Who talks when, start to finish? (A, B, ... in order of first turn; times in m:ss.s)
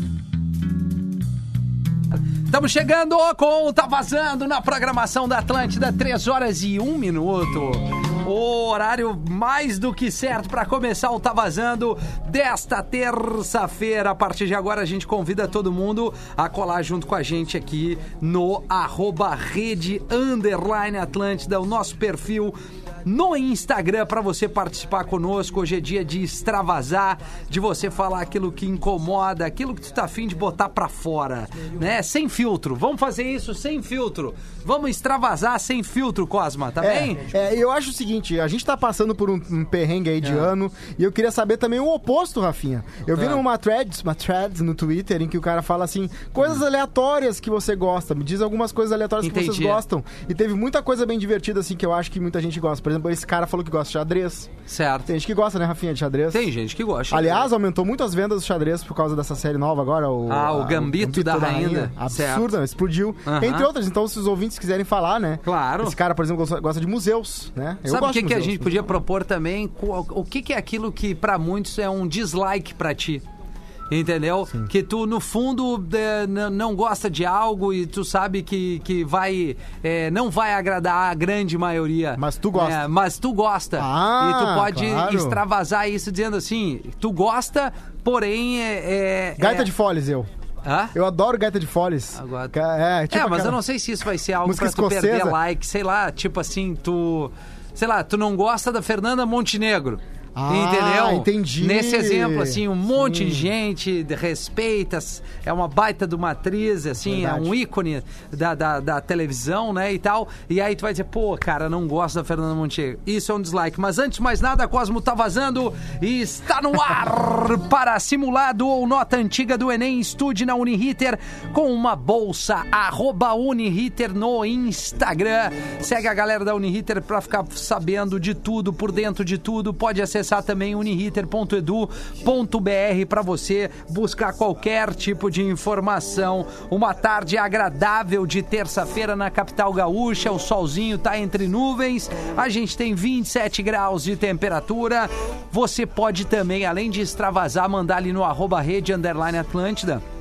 0:02.5-0:37.2 A
0:36.8-0:54.5 B
0:40.2-0:40.5 A
0:43.2-0:43.4 A
0:49.2-0:49.8 A
0:54.7-0:55.1 A
0:55.1-0:56.5 B
0:56.3-0:57.5 A
0:57.1-1:09.0 B
1:00.3-1:02.5 A
1:03.2-1:03.7 A
1:05.4-1:06.0 A
1:07.8-1:13.2 A
1:13.9-1:29.7 A
1:22.2-1:22.8 B
1:23.8-1:25.4 B
1:29.4-1:30.3 B
1:30.6-1:30.9 A
1:30.9-1:33.6 B
1:32.2-1:32.5 A
1:33.1-2:30.0 A
1:34.4-1:35.4 B
1:40.4-1:43.5 B
1:47.0-1:47.5 B